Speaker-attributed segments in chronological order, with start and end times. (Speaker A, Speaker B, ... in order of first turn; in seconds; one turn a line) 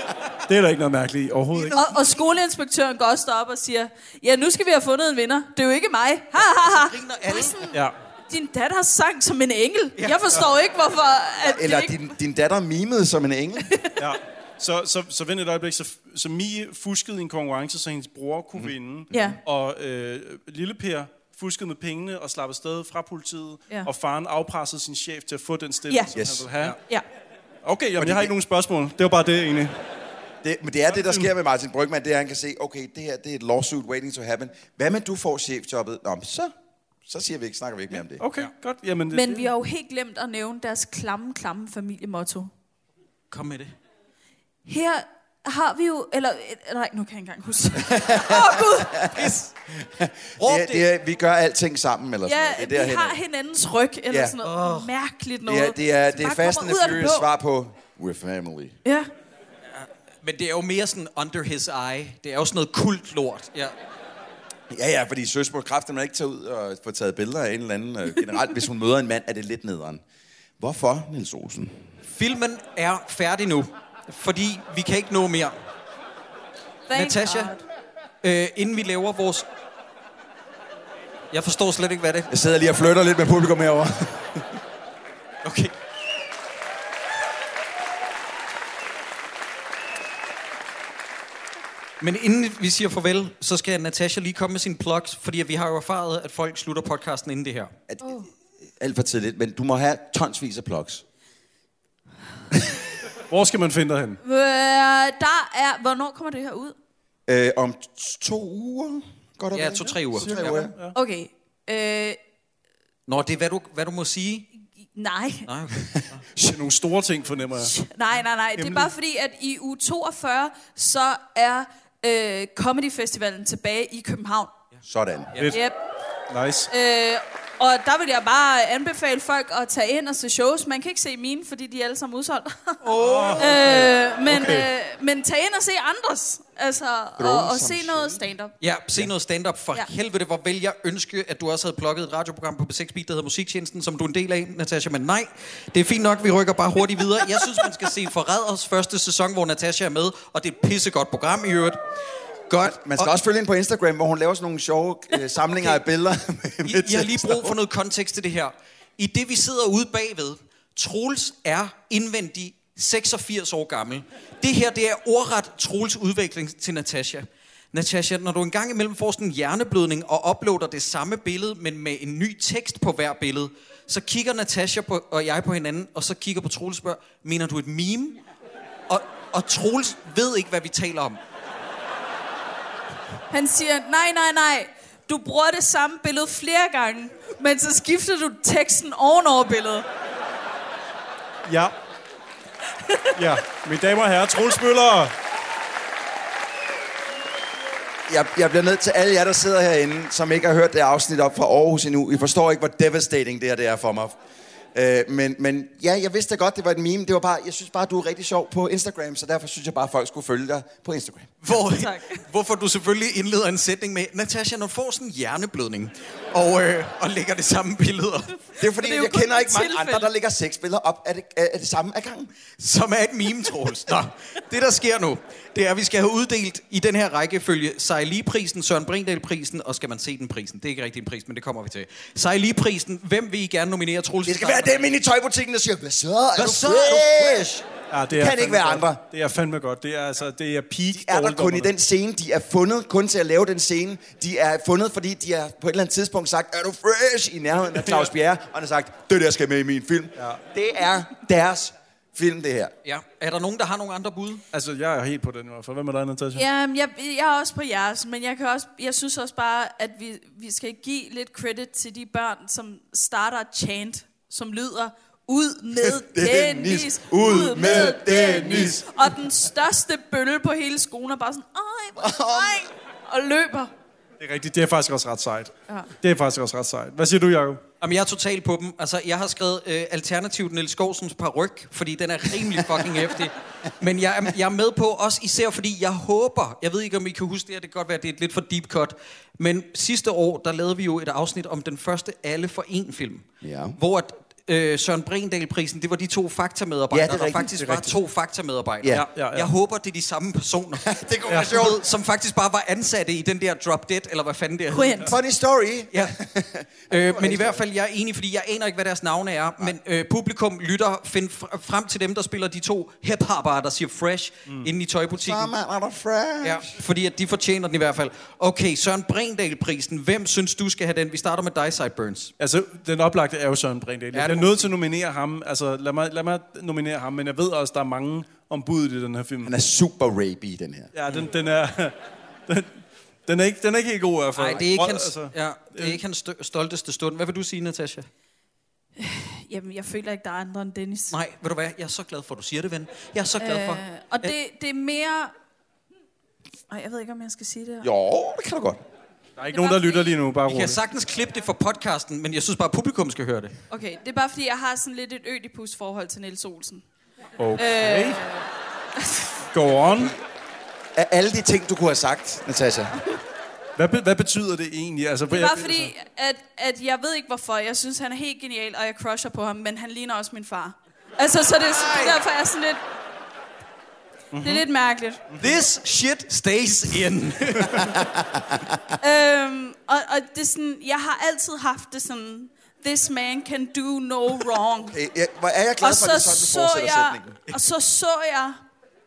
Speaker A: 0.5-1.8
Speaker B: 1.7-7.8
Speaker C: 6.4-7.5
Speaker B: 8.3-12.0
Speaker D: 11.4-13.7
Speaker A: 14.0-26.8
Speaker D: 18.6-19.4
Speaker B: 19.1-19.4
Speaker D: 26.1-26.4
Speaker A: 27.6-29.8
Speaker D: 28.0-28.3
Speaker D: 30.4-36.5
Speaker A: 30.9-31.3
Speaker D: 37.1-38.2
Speaker A: 38.2-39.5
Speaker B: 39.1-42.5
Speaker C: 43.3-43.7
Speaker B: 44.6-49.1
Speaker D: 47.8-53.2
Speaker C: 49.1-49.5
Speaker C: 50.4-50.9
Speaker B: 52.2-57.3
Speaker D: 54.1-54.3
Speaker C: 54.4-54.9
Speaker D: 55.5-58.8
Speaker B: 58.8-59.1
Speaker C: 59.7-63.7
Speaker D: 64.7-70.0
Speaker D: 70.6-71.8
Speaker C: 72.0-75.5
Speaker B: 76.9-77.6
Speaker C: 76.9-77.5
Speaker C: 78.2-79.5
Speaker C: 81.3-82.3
Speaker D: 82.3-84.5
Speaker C: 85.4-85.7
Speaker C: 92.0-97.7
Speaker D: 97.9-98.2
Speaker D: 98.8-101.0
Speaker A: 103.3-104.2
Speaker B: 104.2-106.7
Speaker D: 107.3-110.7
Speaker C: 109.5-110.6
Speaker A: 110.1-110.9
Speaker B: 110.9-112.2
Speaker C: 113.1-114.5
Speaker B: 115.0-115.5
Speaker C: 115.4-116.2
Speaker A: 116.4-117.7
Speaker B: 117.6-124.5
Speaker A: 118.6-118.9
Speaker D: 124.8-125.3
Speaker A: 126.3-126.7
Speaker B: 126.7-132.8
Speaker C: 132.8-133.9
Speaker A: 132.9-134.7
Speaker B: 133.4-138.5
Speaker D: 137.2-138.2
Speaker C: 138.6-151.8
Speaker C: 152.5-153.1
Speaker D: 152.6-157.6
Speaker C: 156.6-178.2
Speaker C: 178.9-181.2
Speaker B: 183.3-189.8
Speaker A: 191.5-191.7
Speaker B: 192.8-193.1
Speaker A: 193.2-195.1
Speaker D: 198.1-204.2
Speaker D: 204.7-211.3
Speaker C: 211.4-218.3
Speaker B: 211.7-212.2
Speaker D: 218.6-222.3
Speaker B: 218.6-220.1
Speaker C: 222.6-234.8
Speaker D: 234.2-237.6
Speaker C: 236.3-237.6
Speaker A: 237.9-241.7
Speaker D: 238.1-239.0
Speaker D: 240.9-252.7
Speaker A: 247.8-248.1
Speaker C: 252.8-254.4
Speaker A: 254.5-256.4
Speaker B: 256.3-273.7
Speaker D: 265.8-268.9
Speaker D: 272.0-272.7
Speaker A: 274.2-277.6
Speaker C: 277.8-305.1
Speaker D: 293.4-293.8
Speaker D: 296.9-297.6
Speaker A: 298.9-299.5
Speaker D: 300.8-301.8
Speaker A: 301.3-301.6
Speaker B: 304.7-305.1
Speaker D: 305.1-307.6
Speaker C: 306.9-315.5
Speaker D: 315.1-316.8
Speaker C: 316.4-322.3
Speaker A: 322.4-329.5
Speaker C: 324.1-324.7
Speaker D: 329.4-330.9
Speaker A: 330.9-331.9
Speaker A: 332.5-336.0
Speaker C: 334.3-338.1
Speaker B: 339.0-341.1
Speaker C: 341.1-344.3
Speaker B: 343.4-345.3
Speaker B: 346.7-347.9
Speaker D: 347.8-348.8
Speaker A: 349.4-350.8
Speaker B: 349.5-350.1
Speaker C: 350.5-353.5
Speaker B: 353.7-356.8
Speaker A: 357.4-358.2
Speaker B: 357.6-359.3
Speaker A: 359.5-360.1
Speaker D: 360.9-363.0
Speaker A: 363.8-365.9
Speaker B: 365.3-372.8
Speaker C: 371.7-372.2
Speaker A: 374.3-374.6
Speaker B: 374.4-375.2
Speaker A: 375.3-375.6
Speaker C: 375.4-377.8
Speaker D: 377.7-378.8
Speaker B: 379.0-385.0
Speaker D: 384.9-387.4
Speaker B: 385.8-388.6